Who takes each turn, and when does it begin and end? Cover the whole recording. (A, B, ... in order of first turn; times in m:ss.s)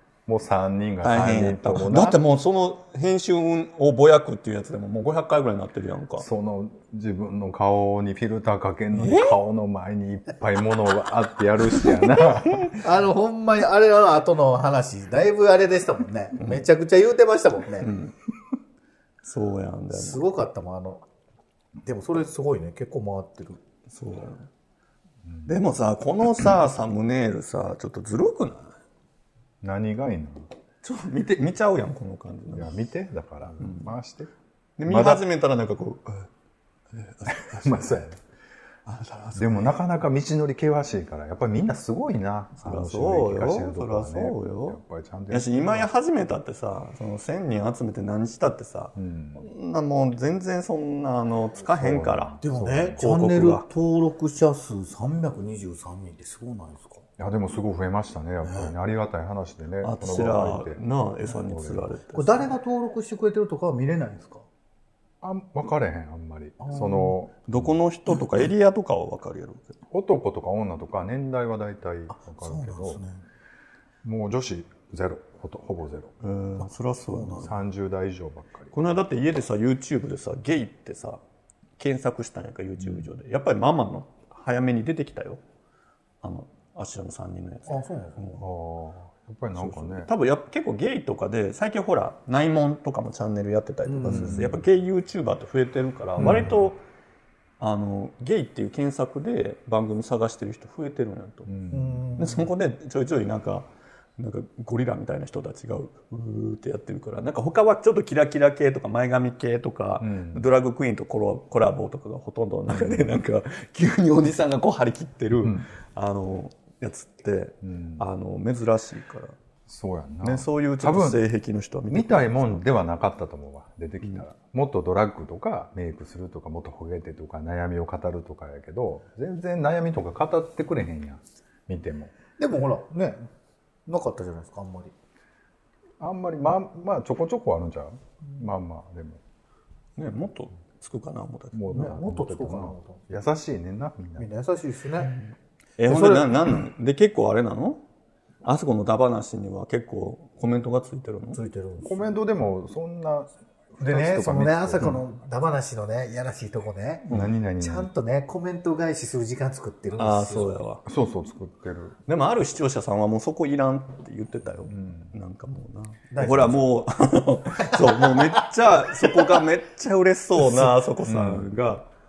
0:00.3-0:02.2 A
0:01.0-0:06.3 B
0:06.2-0:12.8 A
0:08.9-0:09.4 B
0:12.1-0:12.7 B
0:12.8-0:17.9 C
0:16.4-0:16.6 B
0:17.8-0:18.2 B
0:19.2-0:20.2 B
0:19.9-0:21.0 C
0:21.8-0:23.6 C
0:23.9-0:24.5 B
0:25.2-0:25.6 A
0:25.5-0:28.7 B
0:29.6-0:30.5 A
0:30.8-0:32.7 B
0:32.5-0:34.3 A
0:33.6-0:33.9 B
0:34.8-0:36.3 B
0:34.9-0:35.2 A
0:36.9-0:38.1 B
0:37.3-0:38.2 A
0:38.9-0:39.8 B
0:39.4-0:45.9 A
0:42.6-0:52.4 B
0:49.0-0:49.5 A
0:51.7-0:53.0 A
0:52.4-0:57.0 C
0:53.0-0:53.7 B
0:57.2-1:01.9 A
0:58.4-0:58.7 C
0:59.8-1:02.5 B
1:02.1-1:04.4 C
1:05.2-1:07.8 A
1:06.6-1:07.1 C
1:07.5-1:09.8 B
1:09.9-1:13.0 A
1:12.1-1:13.2 C
1:14.0-1:16.1 A
1:16.2-1:17.5 B
1:17.1-1:17.5 C
1:17.4-1:18.7 A
1:18.7-1:21.2 B
1:21.8-1:25.4 B
1:26.2-1:27.8 B
1:27.7-1:28.4 C
1:28.4-1:30.1 A
1:29.5-1:36.8 B
1:33.9-1:34.5 C
1:34.1-1:34.6 A
1:36.2-1:36.7 A
1:37.6-1:41.5 B
1:41.5-1:42.0 A
1:41.7-1:42.5 C
1:42.2-1:59.4 B
1:50.0-1:50.5 A
1:52.7-1:53.1 A
1:55.4-1:55.7 A
1:57.6-1:58.0 A
1:59.7-2:01.2 A
2:00.2-2:02.6 B
2:01.9-2:12.1 A
2:12.4-2:13.3 C
2:13.9-2:14.9 C
2:16.0-2:19.2 A
2:20.0-2:21.7 B
2:21.5-2:24.3 A
2:21.7-2:23.0 C
2:24.2-2:25.2 C
2:25.8-2:27.8 B
2:25.9-2:26.3 C
2:28.4-2:31.4 B
2:31.3-2:32.1 C
2:31.8-2:35.0 A
2:33.8-2:40.6 C
2:37.1-2:37.9 A
2:40.0-2:40.9 B
2:40.8-2:42.0 A
2:42.1-2:51.9 B
2:44.7-2:45.1 A
2:46.1-2:46.8 C
2:47.7-2:48.0 C
2:51.0-2:51.5 A